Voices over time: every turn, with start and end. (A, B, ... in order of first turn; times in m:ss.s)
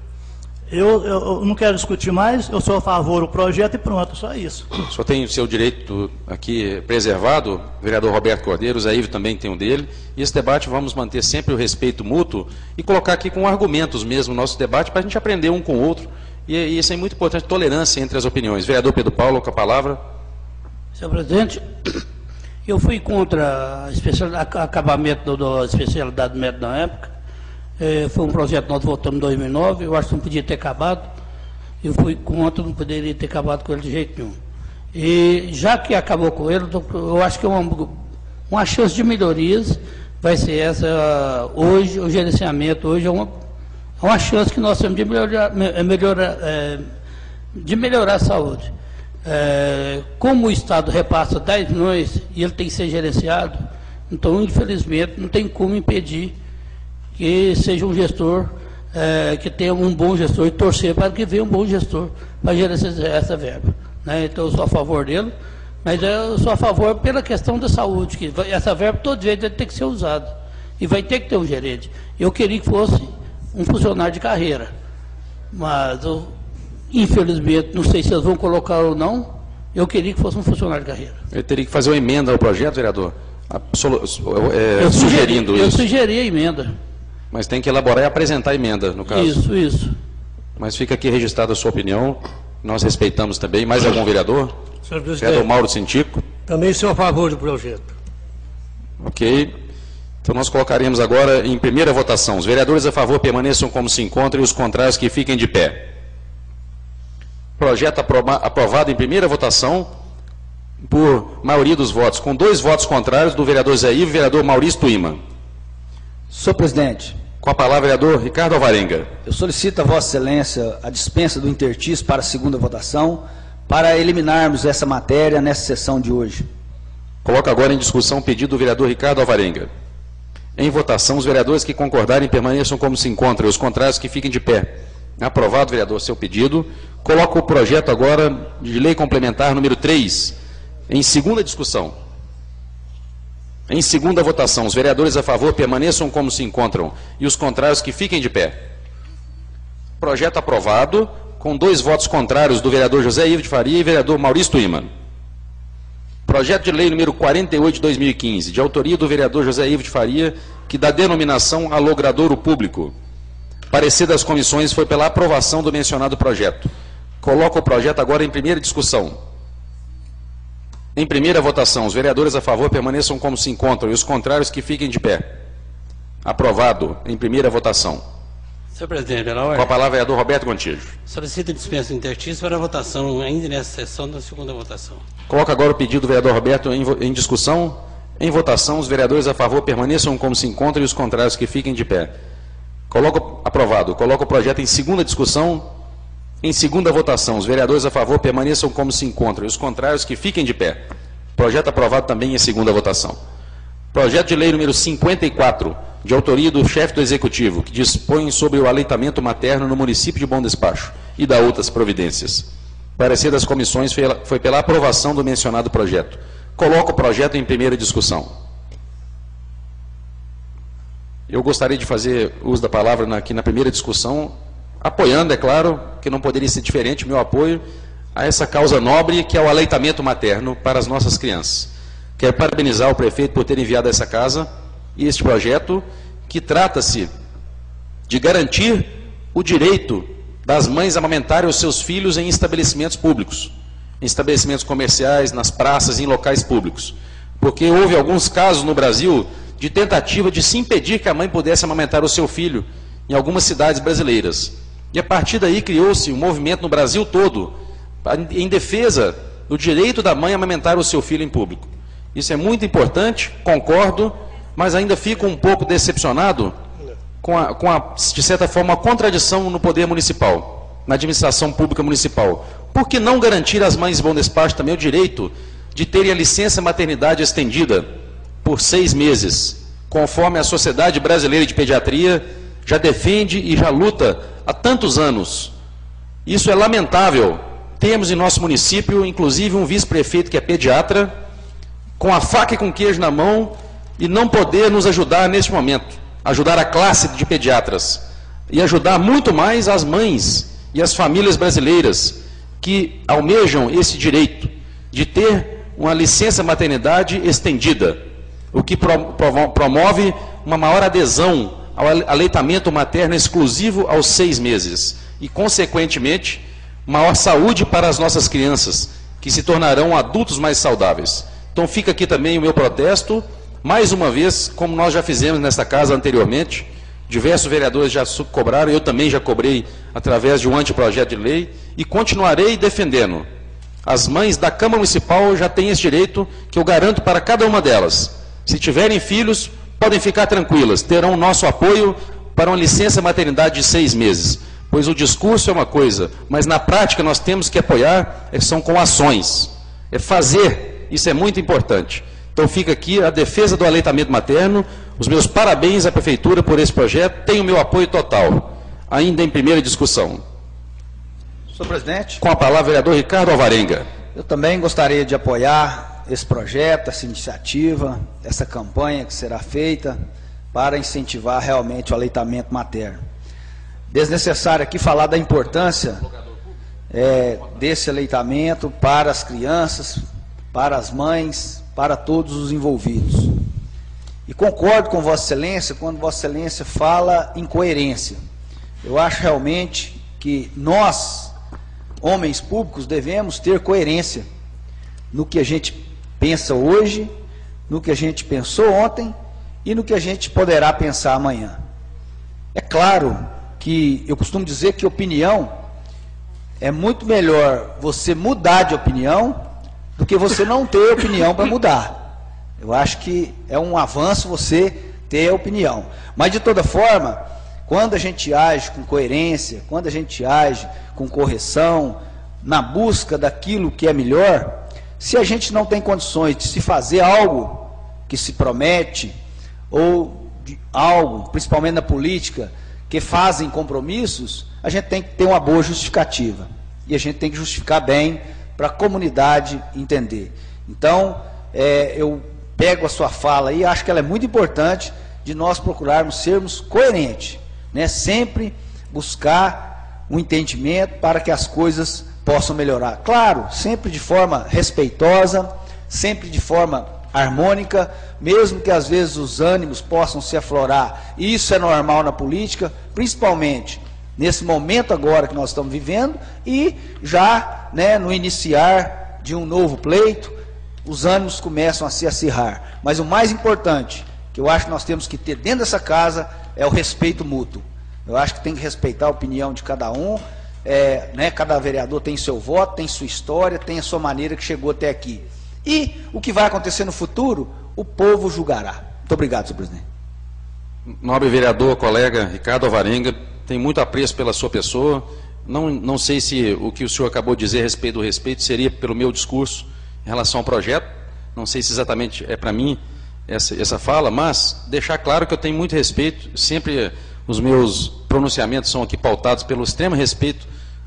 0:00.7-0:04.7 A
0:04.9-0:20.0 B
0:21.0-0:22.0 C
0:22.7-0:27.1 C
0:27.8-0:31.1 C
0:31.8-0:34.4 C
0:34.9-0:38.0 C
0:38.5-0:43.3 C
0:44.0-0:46.9 C
0:47.5-0:48.7 C
0:49.2-0:56.4 C
0:57.2-1:14.7 C
1:15.5-1:16.3 C
1:16.9-1:21.2 C
1:21.3-1:25.8 B
1:24.8-1:26.7 C
1:27.3-1:29.4 B
1:29.1-1:30.0 C
1:30.6-1:34.6 B
1:34.9-1:35.5 D
1:35.2-1:36.2 B
1:36.5-1:37.9 D
1:39.0-1:39.5 B
1:40.2-1:45.8 B
1:47.6-1:49.9 B
1:50.8-1:55.2 B
1:56.3-1:57.2 E
1:57.4-1:59.1 B
1:59.2-2:06.5 E
2:07.2-2:09.7 B
2:10.6-2:20.4 B
2:20.9-2:21.9 B
2:23.7-2:28.6 B
2:30.0-2:34.9 B
2:36.3-2:42.9 B
2:43.7-2:46.7 B
2:47.2-2:49.2 B
2:51.0-2:55.4 B
2:56.2-2:58.0 B
2:58.8-2:59.7 F
2:59.5-3:00.9 B
3:01.1-3:05.0 F
3:05.3-3:12.1 B
3:12.9-3:15.7 B
3:16.4-3:20.8 B
3:21.4-3:23.2 B
3:23.9-3:38.3 B
3:41.3-3:47.6 B
3:48.2-3:57.1 B
3:58.1-4:17.5 B
4:18.0-4:26.6 B
4:27.2-4:37.9 B
4:38.4-4:45.5 B
4:46.3-4:51.1 B
4:52.0-5:08.0 B
5:08.5-5:33.3 B
5:33.8-6:00.2 B
6:01.5-6:02.2 E
6:02.2-6:03.9 B
6:04.1-6:10.0 E
6:10.5-6:13.0 E
6:13.9-6:16.0 E
6:16.9-6:23.4 E
6:24.3-6:28.2 E
6:28.8-6:31.3 E
6:32.0-6:34.3 E
6:35.1-6:37.1 E
6:37.7-6:41.6 E
6:42.5-6:45.6 E
6:46.6-6:52.0 E
6:52.6-7:09.2 E
7:09.7-8:09.8 E
8:11.0-8:30.5 B